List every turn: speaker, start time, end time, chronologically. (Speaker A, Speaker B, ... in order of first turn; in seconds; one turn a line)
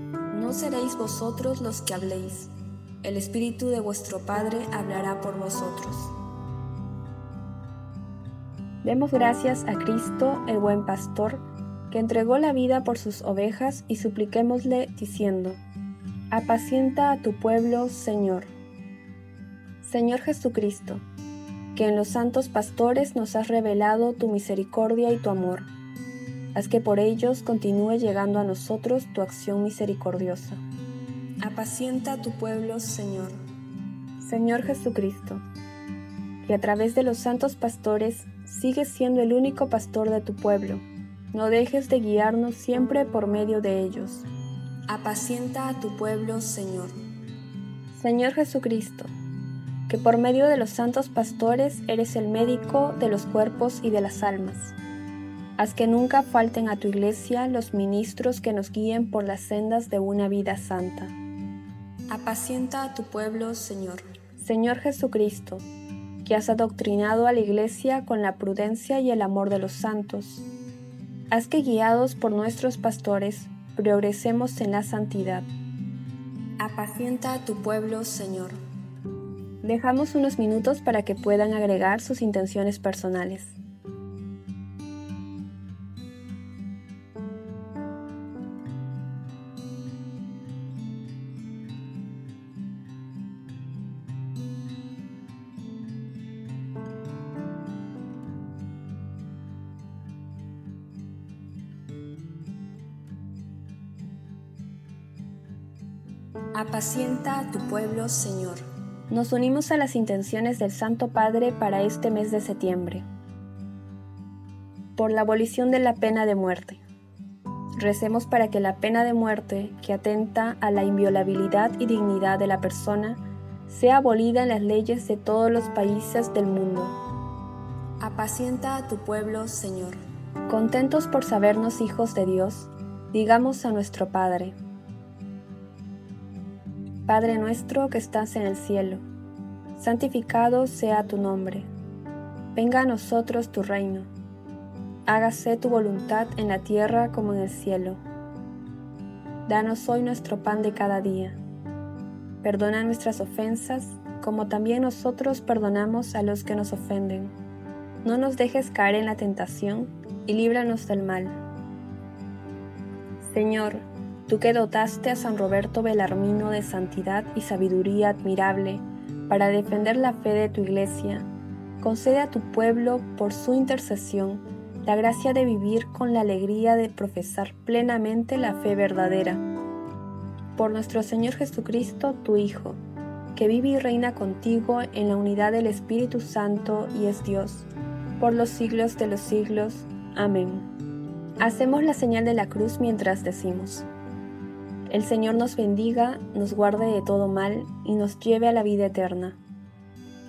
Speaker A: 0.3-2.5
Speaker A: 3.0-6.1
Speaker A: 8.8-15.6
Speaker A: 16.3-18.5
Speaker A: 19.8-21.0
Speaker A: 21.7-25.7
Speaker A: 26.5-30.6
Speaker A: 31.4-33.4
Speaker A: 34.2-35.4
Speaker A: 36.4-44.3
Speaker A: 44.9-47.0
Speaker A: 47.9-49.1
Speaker A: 49.9-54.8
Speaker A: 55.6-61.1
Speaker A: 62.1-65.7
Speaker A: 66.2-70.5
Speaker A: 71.3-75.5
Speaker A: 76.6-78.6
Speaker A: 79.6-83.6
Speaker A: 106.5-113.1
Speaker A: 115.0-116.8
Speaker A: 117.8-127.0
Speaker A: 128.0-134.6
Speaker A: 137.1-139.0
Speaker A: 139.7-141.7
Speaker A: 142.5-144.1
Speaker A: 145.1-148.0
Speaker A: 149.4-151.4
Speaker A: 152.4-157.3
Speaker A: 158.0-161.4
Speaker A: 163.2-171.3
Speaker A: 171.8-179.4
Speaker A: 180.5-182.8
Speaker A: 183.3-190.7
Speaker A: 191.4-193.9
Speaker A: 194.9-199.4